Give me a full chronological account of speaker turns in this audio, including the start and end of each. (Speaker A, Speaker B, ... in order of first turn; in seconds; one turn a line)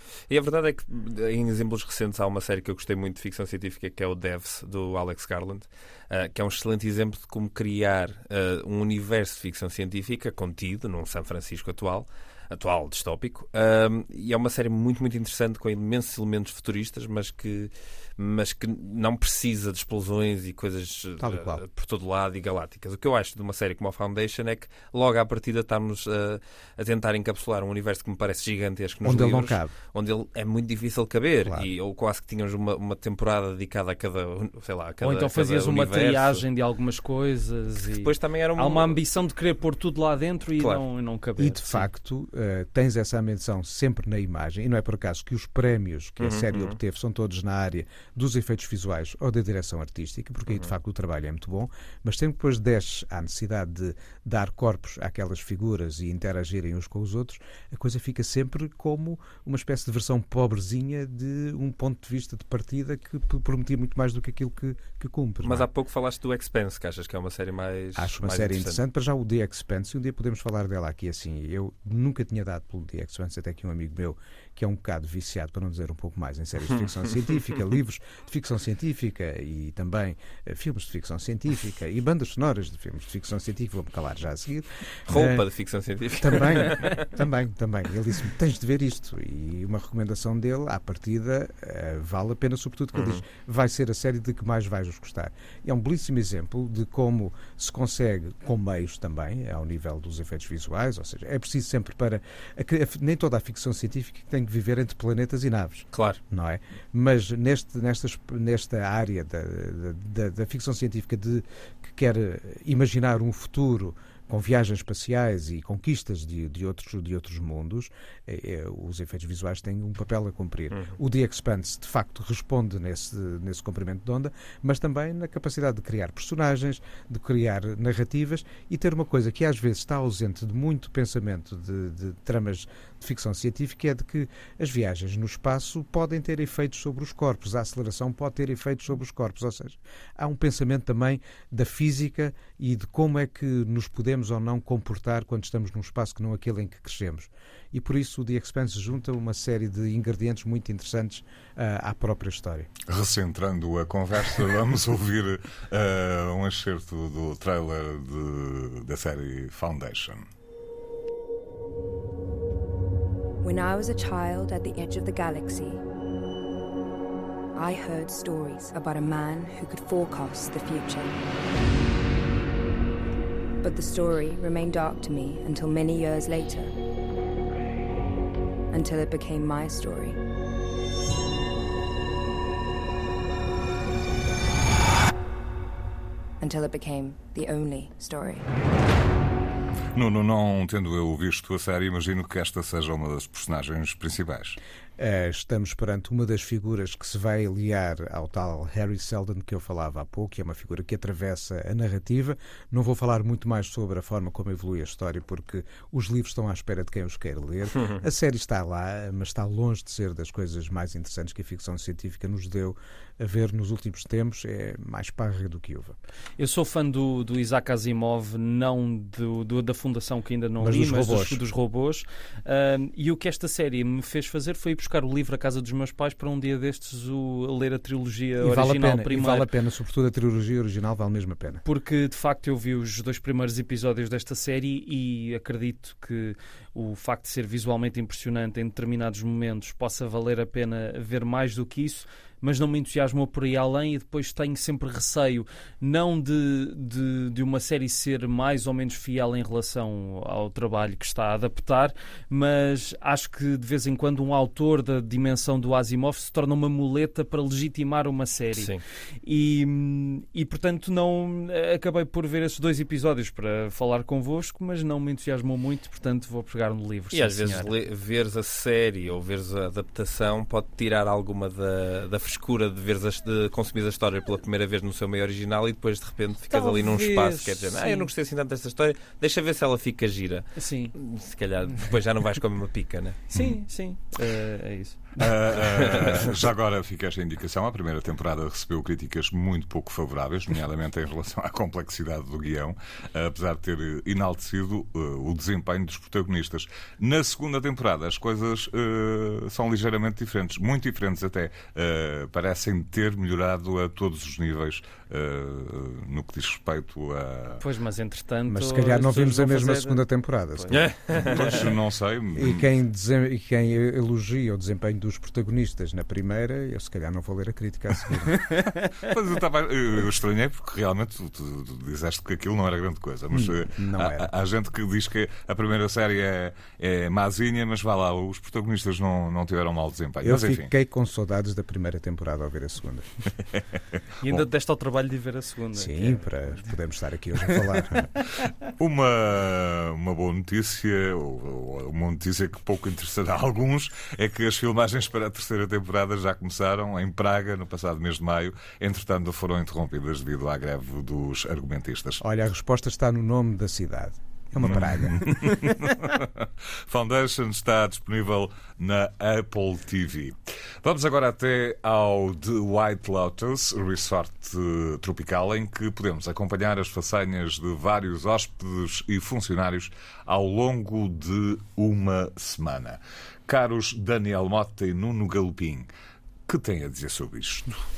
Speaker A: 0.3-36.4
Speaker B: 21.2-21.6
Speaker B: 29.0-29.7
Speaker C: 35.0-41.9
Speaker A: 37.8-39.0
Speaker B: 41.4-65.7
Speaker A: 46.2-46.8
Speaker A: 65.4-68.8
Speaker B: 68.0-85.4
Speaker A: 85.1-87.1
Speaker B: 86.2-152.7
Speaker A: 92.9-93.2
Speaker A: 105.9-106.2
Speaker A: 120.7-121.0
Speaker D: 152.9-160.2
Speaker E: 163.4-165.8
Speaker E: 167.6-171.2
Speaker E: 173.6-176.7
Speaker E: 178.7-180.2
Speaker E: 186.4-188.4
Speaker D: 189.9-194.6
Speaker B: 195.0-215.9
Speaker C: 216.4-229.5
Speaker B: 220.6-221.4
Speaker B: 228.4-231.6
Speaker C: 231.6-258.7
Speaker A: 258.5-258.8
Speaker C: 259.2-267.7
Speaker A: 267.1-283.2
Speaker C: 276.5-278.1
Speaker C: 280.6-280.9
Speaker C: 283.3-285.2
Speaker D: 285.2-307.6
Speaker A: 285.9-286.2
Speaker C: 307.6-310.0
Speaker B: 308.5-311.2
Speaker A: 310.7-311.4
Speaker D: 311.2-312.6
Speaker B: 312.4-318.4
Speaker D: 319.0-330.7
Speaker B: 323.3-324.3
Speaker B: 330.2-333.1
Speaker C: 334.2-336.7
Speaker B: 335.7-338.1
Speaker D: 338.7-352.2
Speaker B: 352.2-355.6
Speaker D: 354.6-375.9
Speaker D: 376.5-377.8